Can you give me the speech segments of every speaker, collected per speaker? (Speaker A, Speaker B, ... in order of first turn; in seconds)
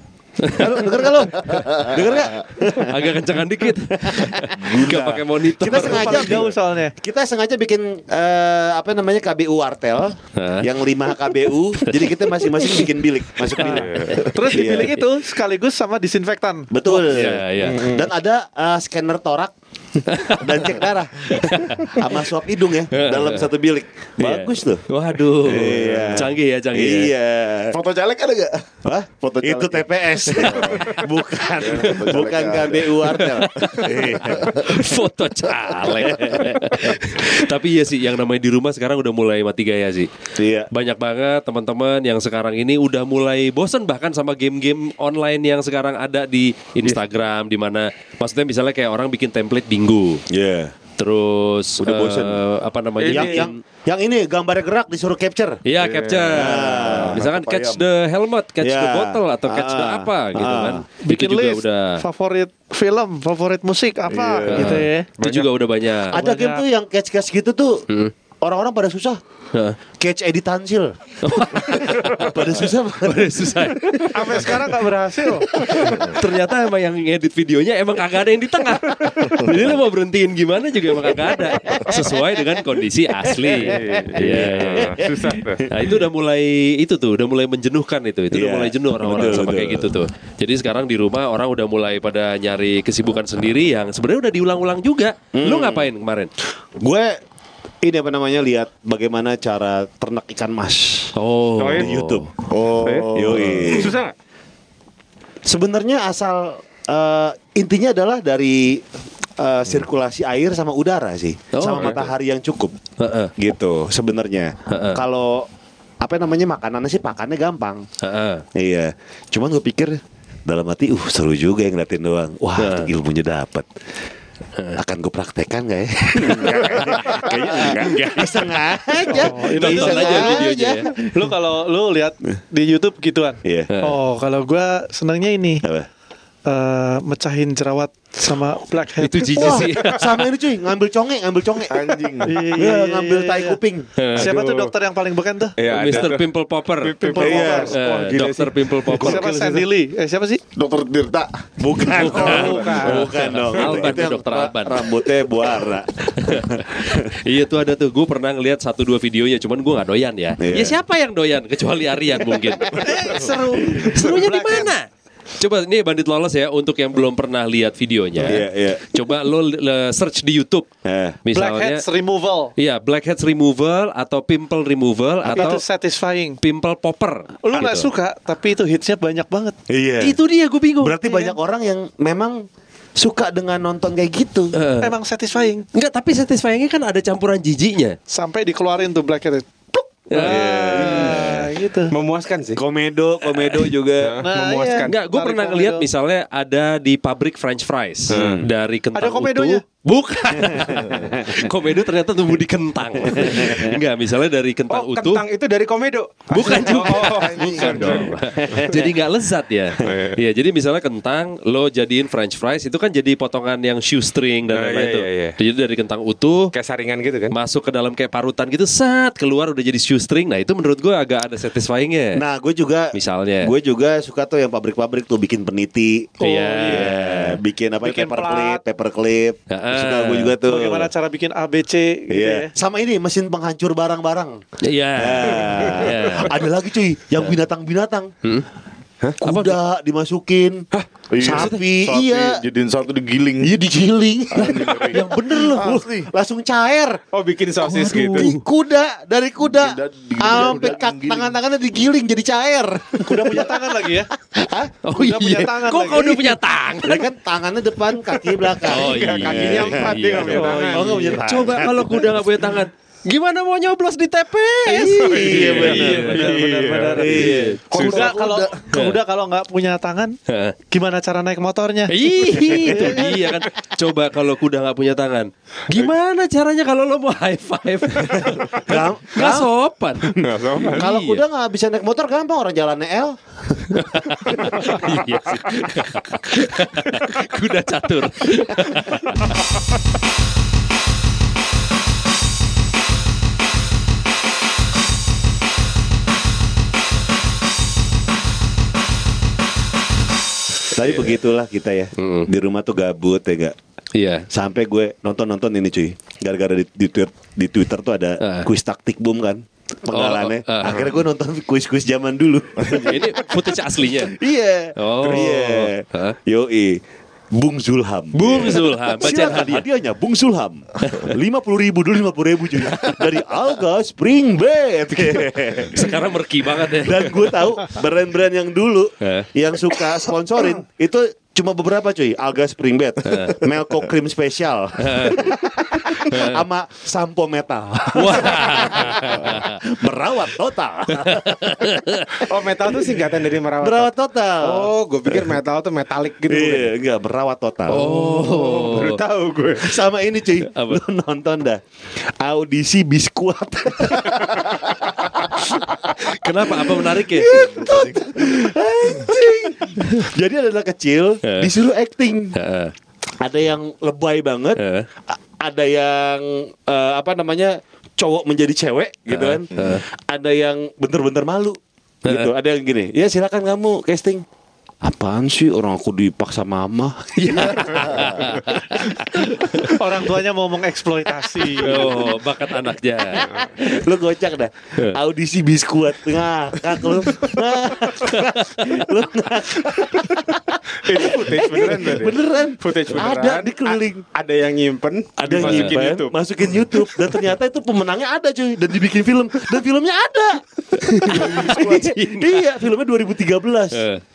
Speaker A: 0.4-1.6, 2.8-6.4, 10.3-10.7, 11.8-12.8, 14.1-14.9, 17.1-17.9, 20.1-20.7, 21.3-22.1, 22.9-23.5, 24.2-27.1, 30.3-30.7, 31.8-32.1, 33.1-40.1, 40.7-50.2, 51.0-53.5, 55.6-62.0, 64.5-66.2, 71.2-74.6, 75.5-85.0, 85.7-96.3, 101.1-102.2, 111.5-112.1, 113.0-113.3, 114.7-115.0, 118.0-118.4, 122.6-122.9, 127.1-128.3, 129.5-130.9, 133.7-134.0, 139.0-140.3, 144.0-144.3, 145.7-149.4, 151.9-155.0, 156.2-164.9, 165.4-170.7, 171.2-171.8, 172.6-175.6, 176.4-177.9, 180.0-181.0, 184.5-184.9, 185.7-187.9, 190.1-191.2, 193.4-193.7, 194.9-205.2, 206.3-216.5, 217.3-222.2, 222.9-223.5, 226.2-227.4, 229.5-230.3, 234.6-236.5, 239.2-239.6, 241.3-241.6, 244.9-245.7, 247.6-248.4, 254.8-257.1, 258.4-266.3, 267.0-267.6, 268.7-269.0, 270.3-270.5, 271.9-281.2, 283.7-289.4, 302.0-302.3, 303.9-304.3, 308.2-308.5, 309.9-310.9, 312.7-314.1, 314.8-316.1, 318.1-319.6, 325.7-327.3, 329.0-329.3, 333.0-333.4, 334.8-335.2, 336.1-336.4, 337.9-339.6, 341.1-342.2, 347.7-349.0, 350.4-350.8, 356.0-357.4, 361.2-361.5, 362.3-362.7, 364.6-364.9, 369.1-369.8, 372.1-372.3, 377.2-379.8, 381.6-383.3, 395.4-395.8, 400.9-402.4, 403.7-404.0
Speaker B: 0.5-3.2, 3.7-15.0, 16.7-24.8, 25.4-27.8, 28.8-34.6, 35.8-37.0, 40.4-40.7, 50.3-50.7, 51.8-52.4, 53.1-55.6, 56.3-57.2, 58.6-60.8, 66.1-67.8, 68.4-69.2, 70.0-74.3, 81.2-82.2, 83.2-86.0, 88.3-89.8, 95.3-95.9, 96.8-97.2, 97.8-101.1, 101.7-102.3, 103.2-104.0, 105.4-108.8, 109.4-112.8, 113.4-115.5, 116.0-117.8, 118.5-123.7, 124.8-130.9, 133.4-133.7, 139.3-143.9, 147.2-147.8, 151.6-157.1, 160.4-160.8, 168.2-168.8, 170.8-171.2, 179.7-180.2, 180.8-182.4, 183.0-184.5, 190.2-191.5, 192.6-194.2, 198.1-198.4, 200.4-201.4, 203.1-203.7, 207.5-208.8, 222.1-230.9, 232.1-234.4, 234.9-238.1, 239.2-240.7, 241.2-242.4, 243.4-247.0, 248.1-254.7, 256.8-262.1, 264.7-266.1, 267.0-268.6, 272.7-273.0, 278.6-279.5, 280.7-284.9, 300.7-303.5, 304.3-313.4, 314.0-316.8, 317.3-326.0, 326.7-342.1, 343.6-345.3, 346.3-347.8, 349.6-362.3, 363.2-374.2, 374.8-378.3, 383.2-394.0, 395.2-403.8
Speaker C: 5.7-6.9, 13.6-17.1, 61.0-65.1, 66.1-66.6, 74.1-75.5, 129.1-135.6, 136.4-139.7, 142.2-143.6, 144.1-145.6, 147.0-147.8, 148.9-150.4, 152.4-153.0, 162.6-164.7, 171.3-172.5, 175.3-176.4, 177.4-179.5, 181.0-181.3, 184.8-185.6, 188.1-191.9, 194.2-195.9, 198.9-199.6, 226.2-226.9, 227.8-228.6, 230.4-232.5, 253.0-254.1, 254.9-256.4, 264.7-270.2, 270.7-273.3, 379.7-382.1
Speaker D: 13.6-14.2, 17.6-18.1, 53.0-53.4, 55.9-56.3, 65.2-65.5, 83.6-85.7, 101.6-101.9, 102.8-104.1, 144.2-144.7, 145.6-149.3, 191.9-192.6, 194.0-194.9, 198.1-198.4, 204.7-208.8, 209.8-210.2, 214.5-215.4, 216.5-217.3, 247.1-248.3, 258.7-261.2, 265.3-268.1, 280.0-280.9, 342.3-346.7, 347.7-349.8, 390.8-396.1
Speaker E: 25.6-26.3, 27.7-28.7, 29.4-30.8, 31.5-34.7, 56.1-57.9, 64.1-64.8, 102.5-103.9, 141.7-142.4, 150.5-153.1, 241.1-243.6, 244.3-246.1, 249.4-251.4, 357.6-357.9